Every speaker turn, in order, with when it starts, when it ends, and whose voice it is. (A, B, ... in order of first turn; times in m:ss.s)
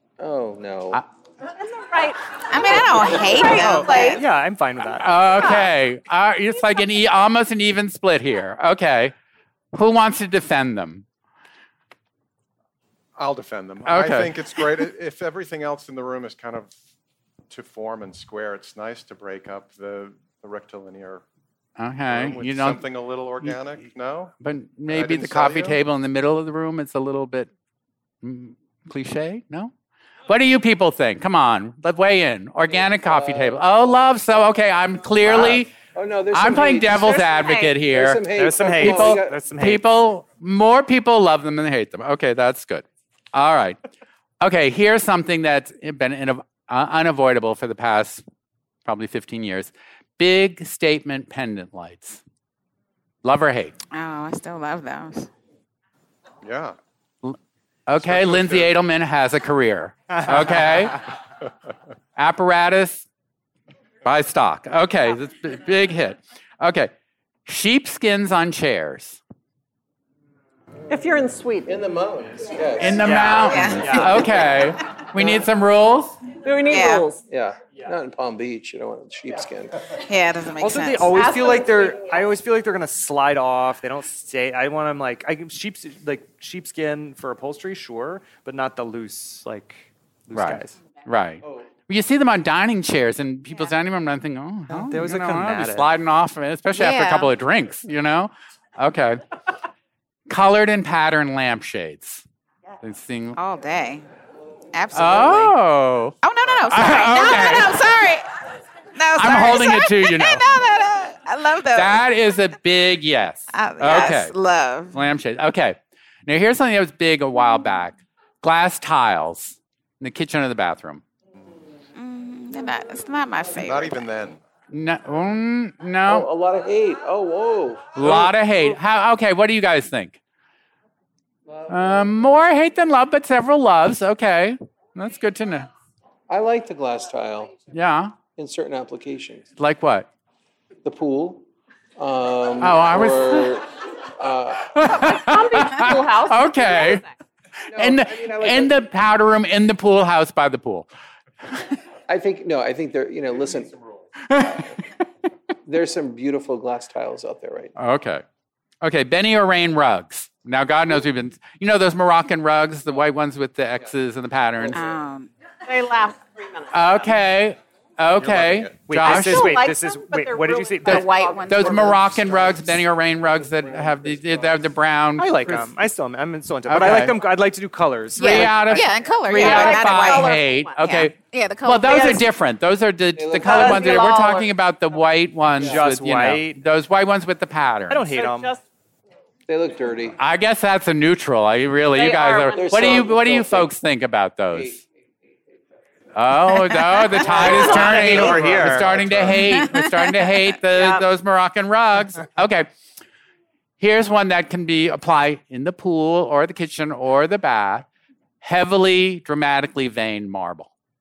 0:00.2-0:01.0 A
0:01.5-0:04.2 B
0:02.5-0:04.2 C
0:03.4-0:05.2 D
0:05.0-0:09.1 E
0:09.7-0:11.0 E
0:13.2-0:16.7 F
0:13.8-0:14.6 E
0:17.5-0:21.2 F
0:21.8-0:22.8 E
0:22.1-0:24.3 F
0:24.4-0:27.5 E
0:24.9-0:25.8 F
0:28.2-0:29.7 E
0:30.3-0:35.7 E
0:32.7-0:34.0 A
0:35.2-0:39.4 A
0:36.3-0:43.8 E
0:37.2-0:37.7 B
0:38.3-0:39.8 D
0:44.4-0:48.2 E
0:48.8-0:52.2 E
0:53.2-0:53.7 E
0:53.9-0:55.3 C
0:56.4-0:56.7 F
0:57.2-1:01.1 E
0:58.0-0:58.8 F
1:02.2-1:03.1 E
1:04.0-1:06.9 E
1:07.4-1:09.2 E
1:10.9-1:11.8 B
1:11.6-1:13.3 A
1:12.8-1:16.2 E
1:13.0-1:14.2 D
1:13.4-1:14.4 C
1:15.2-1:15.4 A
1:16.4-1:17.2 B
1:16.7-1:17.0 C
1:17.3-1:19.9 A
1:20.0-1:21.3 C
1:20.6-1:30.8 D
1:21.1-1:22.0 B
1:30.3-1:39.2 E
1:34.7-1:35.9 D
1:36.7-1:37.3 C
1:40.3-1:42.2 E
1:42.8-1:43.4 E
1:43.4-1:44.0 C
1:44.7-1:45.5 C
1:44.9-1:46.2 E
1:46.2-1:48.2 C
1:46.7-1:47.9 E
1:48.9-1:52.0 C
1:49.1-1:50.4 E
1:51.7-1:54.3 E
1:53.5-1:55.0 C
1:54.9-2:01.0 E
2:02.0-2:04.1 C
2:03.6-2:04.4 F
2:04.7-2:06.3 E
2:06.0-2:08.3 A
2:07.9-2:10.2 E
2:11.5-2:12.1 A
2:11.7-2:15.7 E
2:16.3-2:17.6 A
2:17.7-2:18.1 E
2:18.4-2:19.5 A
2:19.6-2:20.1 E
2:20.8-2:21.4 A
2:22.0-2:24.8 A
2:22.6-2:23.6 E
2:24.7-2:27.0 E
2:24.8-2:27.1 B
2:27.7-2:28.8 A
2:27.7-2:30.9 E
2:32.1-2:33.8 A
2:34.3-2:34.6 A
2:34.3-2:34.6 E
2:35.6-2:37.7 A
2:37.8-2:38.2 E
2:38.8-2:44.8 E
2:44.7-2:45.3 C
2:45.7-2:46.7 B
2:46.7-2:49.6 E
2:48.2-2:48.8 F
2:48.9-2:51.1 D
2:49.0-2:52.0 B
2:50.8-2:55.7 E
2:50.9-2:52.1 C
2:53.4-2:54.6 A
2:55.2-2:58.8 D
2:56.7-2:57.1 E
2:58.1-3:02.3 C
2:58.2-3:08.1 E
2:59.2-3:00.8 B
3:01.9-3:02.2 B
3:03.2-3:04.0 A
3:03.4-3:04.5 B
3:05.6-3:06.6 D
3:07.9-3:08.5 D
3:08.2-3:08.6 B
3:09.5-3:10.2 A
3:10.2-3:14.8 E
3:11.9-3:13.0 B
3:12.5-3:13.7 A
3:14.5-3:14.8 A
3:16.1-3:22.7 E
3:16.6-3:17.6 C
3:17.2-3:18.5 B
3:17.3-3:18.9 D
3:17.9-3:19.5 F
3:19.5-3:20.2 C
3:20.7-3:21.0 B
3:23.8-3:27.9 E
3:28.4-3:30.7 E